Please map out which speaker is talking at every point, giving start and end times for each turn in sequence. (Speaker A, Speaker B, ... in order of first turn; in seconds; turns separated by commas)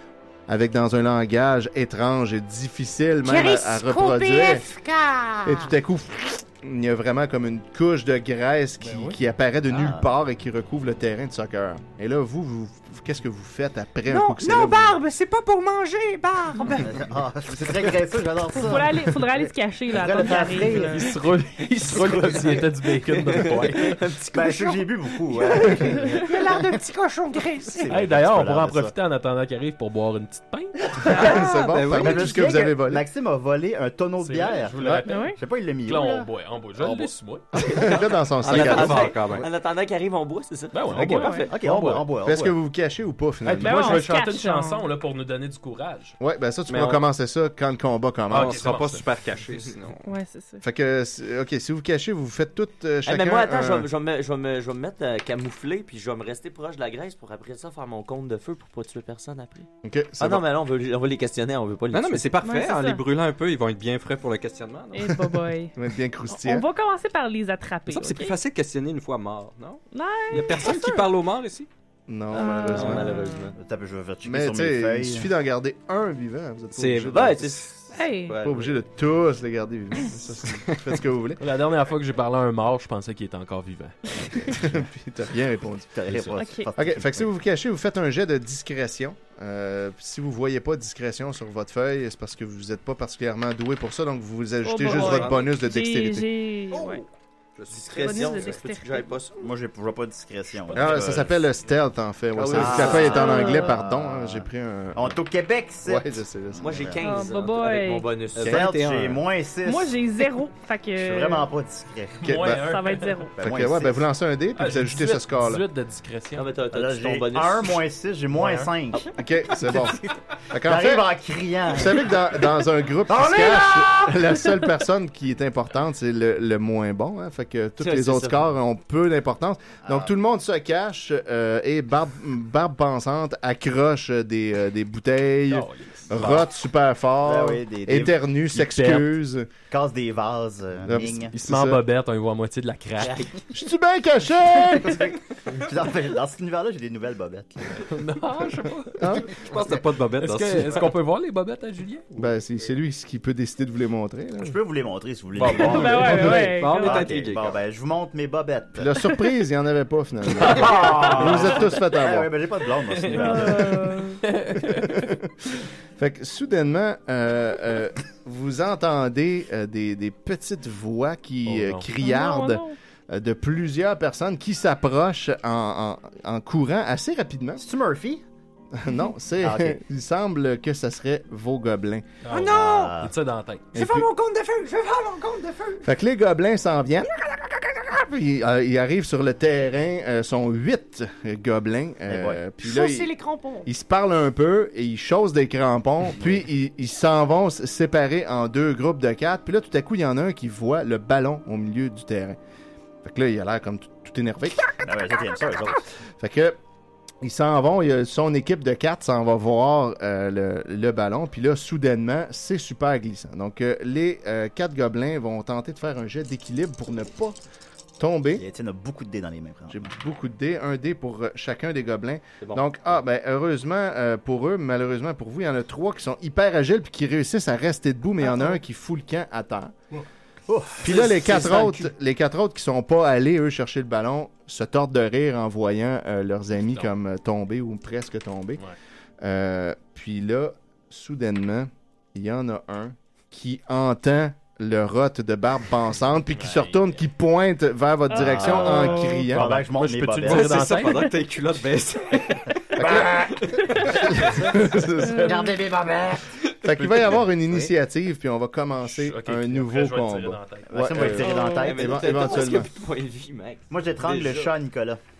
Speaker A: 0.5-4.7, Speaker B: 3.2-5.7, Speaker A: 5.5-15.0, Speaker C: 8.8-9.2, Speaker D: 9.7-10.1, Speaker B: 14.1-17.0, Speaker D: 16.7-19.2, Speaker E: 18.5-21.1, Speaker D: 19.9-21.0, Speaker C: 20.8-24.0, Speaker F: 21.9-22.7, Speaker F: 23.4-24.6, Speaker D: 24.3-26.6, Speaker B: 25.4-28.0, Speaker D: 27.8-28.9, Speaker C: 27.9-30.9, Speaker G: 31.0-32.4, Speaker A: 31.1-33.0, Speaker D: 31.9-36.3, Speaker C: 34.2-37.5, Speaker E: 35.0-35.4, Speaker A: 37.7-39.1, Speaker G: 37.7-39.5, Speaker F: 37.8-41.4, Speaker C: 40.7-42.0, Speaker E: 41.0-41.5, Speaker D: 41.5-42.6, Speaker A: 42.2-44.0, Speaker C: 43.4-46.2, Speaker E: 43.6-44.8, Speaker A: 46.2-48.6, Speaker G: 46.7-47.0, Speaker C: 48.3-49.0, Speaker G: 48.3-50.1, Speaker E: 50.0-50.6, Speaker A: 50.6-53.9, Speaker F: 53.0-59.7, Speaker A: 59.8-60.4, Speaker F: 60.2-62.4, Speaker G: 61.9-65.1, Speaker E: 62.4-63.0, Speaker E: 64.9-65.7, Speaker A: 65.1-66.7, Speaker E: 66.3-68.4, Speaker G: 67.9-71.7, Speaker E: 69.9-71.1, Speaker A: 72.1-73.1, Speaker E: 72.3-73.5, Speaker F: 72.3-73.5, Speaker G: 72.7-73.2, Speaker D: 73.5-75.3, Speaker A: 74.2-77.7, Speaker G: 76.7-77.3, Speaker F: 77.0-78.8, Speaker E: 77.9-78.4, Speaker A: 78.4-81.4, Speaker C: 81.4-84.5, Speaker A: 84.5-85.9, Speaker D: 85.9-87.3, Speaker E: 86.3-86.7, Speaker A: 86.7-96.2, Speaker E: 94.6-97.0, Speaker G: 94.8-95.5, Speaker G: 96.7-98.6, Speaker F: 97.7-99.5, Speaker E: 97.9-99.2, Speaker D: 99.4-101.4, Speaker A: 100.7-105.2, Speaker D: 102.4-107.0, Speaker F: 102.4-103.2, Speaker E: 103.0-103.7, Speaker A: 105.8-106.8, Speaker F: 106.6-108.7, Speaker E: 107.0-108.1, Speaker G: 108.3-109.2, Speaker D: 108.4-110.0, Speaker E: 109.6-111.5, Speaker D: 111.0-112.2, Speaker C: 112.2-113.3, Speaker A: 112.2-112.7, Speaker E: 112.5-113.4, Speaker D: 113.4-114.1, Speaker A: 113.4-115.6, Speaker C: 114.5-116.5, Speaker F: 116.3-117.7, Speaker D: 116.7-119.1, Speaker C: 118.3-118.7, Speaker A: 119.1-121.1, Speaker D: 120.6-122.2, Speaker A: 121.7-139.5, Speaker D: 123.1-123.8, Speaker F: 127.8-128.5, Speaker D: 129.8-130.1, Speaker C: 135.5-136.2, Speaker D: 136.1-136.5, Speaker D: 137.2-138.2, Speaker C: 138.5-139.1, Speaker D: 139.7-141.3, Speaker A: 140.8-141.8, Speaker C: 141.3-143.2, Speaker F: 143.0-143.3, Speaker A: 143.5-145.1, Speaker D: 144.7-147.8, Speaker C: 147.8-149.2, Speaker A: 149.0-149.4, Speaker G: 149.2-150.9, Speaker C: 150.2-152.3, Speaker A: 152.2-154.6, Speaker D: 154.4-158.9, Speaker C: 155.3-156.5, Speaker E: 155.6-157.1, Speaker G: 155.8-157.6, Speaker A: 158.8-162.3, Speaker C: 160.4-161.6, Speaker D: 160.5-163.8, Speaker C: 163.0-163.7, Speaker E: 163.1-164.2, Speaker C: 164.2-165.1, Speaker A: 166.0-177.6, Speaker C: 171.4-171.8, Speaker E: 172.0-172.8, Speaker D: 177.6-178.2, Speaker A: 178.7-182.0, Speaker D: 179.4-179.8, Speaker C: 182.2-183.7, Speaker B: 182.3-182.9, Speaker D: 182.4-183.1, Speaker A: 183.7-184.1, Speaker B: 183.7-185.8, Speaker A: 185.8-187.1, Speaker A: 187.8-193.1, Speaker D: 192.1-192.4, Speaker B: 192.6-193.7, Speaker A: 193.6-202.4, Speaker D: 196.2-196.4, Speaker A: 203.0-204.8, Speaker D: 204.8-205.8, Speaker A: 206.2-206.6, Speaker A: 207.2-217.4, Speaker A: 218.0-218.4, Speaker D: 218.4-219.9, Speaker A: 219.7-229.7, Speaker F: 222.4-223.0, Speaker D: 230.5-231.8, Speaker A: 230.8-238.6, Speaker F: 230.9-231.7, Speaker A: 239.2-249.4, Speaker C: 246.3-247.0, Speaker E: 248.1-249.3, Speaker D: 248.1-250.6, Speaker C: 249.3-251.1, Speaker G: 250.2-254.4, Speaker A: 252.8-253.3, Speaker D: 252.8-253.3, Speaker A: 253.8-255.4, Speaker E: 255.0-255.6, Speaker D: 255.2-256.2, Speaker A: 256.6-262.7, Speaker C: 256.8-257.3, Speaker C: 258.8-261.1, Speaker D: 260.7-262.3, Speaker E: 261.1-261.8, Speaker F: 261.6-264.5, Speaker D: 263.7-265.0